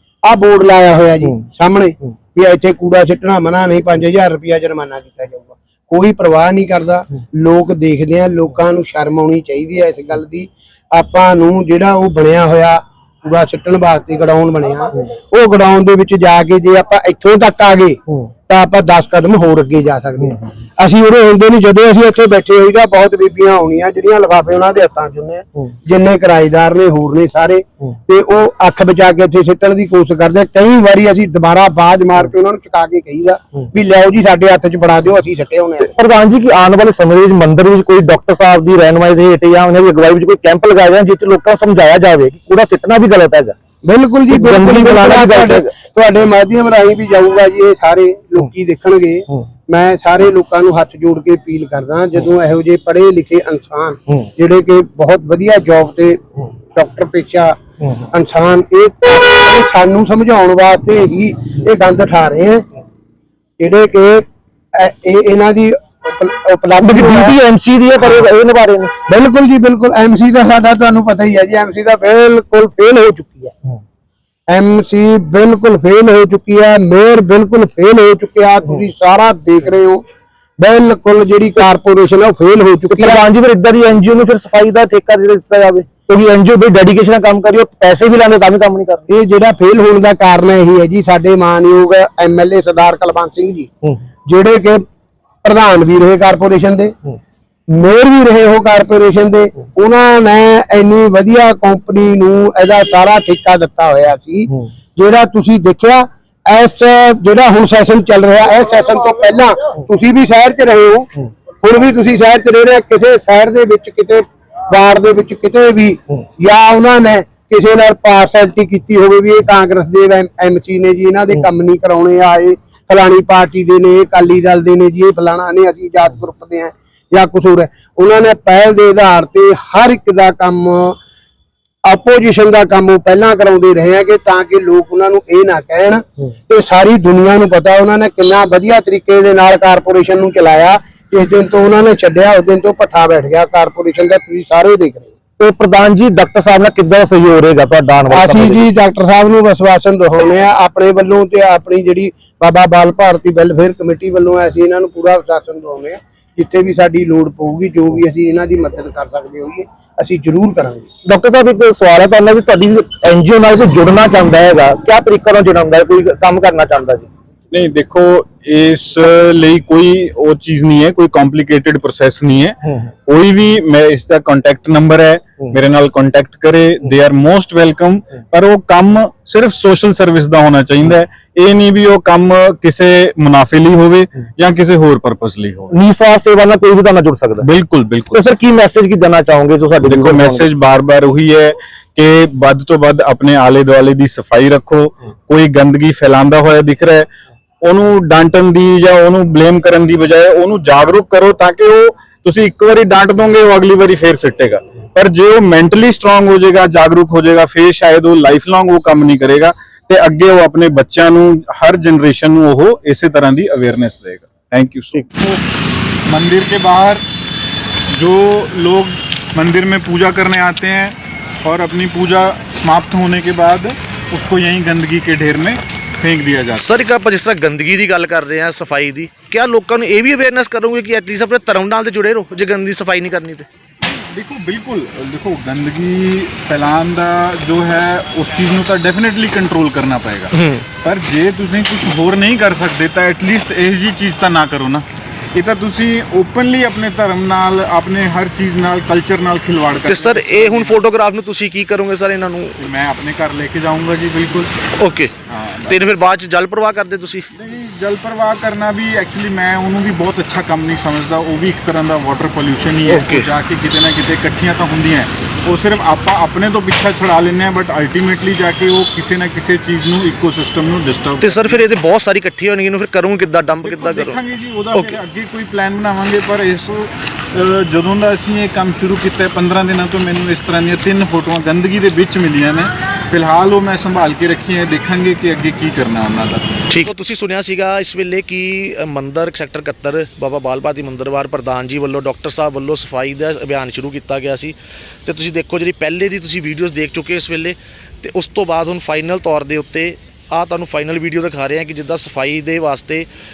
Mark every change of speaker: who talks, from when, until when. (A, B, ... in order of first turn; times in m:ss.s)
0:00.2-0:35.9 A
0:36.0-0:43.5 B
0:43.8-0:56.2 A
0:44.3-0:45.7 B
0:56.7-0:57.6 A
0:58.1-1:02.6 A
1:03.6-1:07.4 A
1:06.8-1:08.9 B
1:09.1-1:13.5 A
1:14.5-1:20.0 A
1:20.6-1:23.2 A
1:22.9-1:29.0 B
1:29.1-1:33.7 A
1:34.2-1:34.8 A
1:35.4-1:36.9 A
1:37.7-1:51.1 A
1:51.6-2:11.0 A
2:11.8-2:25.1 A
2:25.4-2:28.6 B
2:28.1-2:40.9 A
2:41.0-2:47.1 B
2:47.5-3:05.7 C
3:05.7-3:07.4 B
3:07.4-3:08.2 C
3:08.1-3:10.5 B
3:09.8-3:17.1 C
3:17.6-3:35.4 C
3:36.1-3:37.0 C
3:37.9-3:46.8 C
3:46.6-3:53.5 D
3:53.8-4:10.8 C
4:00.3-4:00.6 D
4:09.8-4:12.6 D
4:12.6-4:14.5 C
4:14.8-4:15.1 D
4:15.3-4:16.0 C
4:15.7-4:17.3 D
4:17.3-4:31.6 C
4:22.8-4:23.3 D
4:31.2-4:34.2 D
4:33.6-4:46.4 C
4:34.7-4:35.0 D
4:46.7-4:54.5 D
4:55.1-5:03.1 D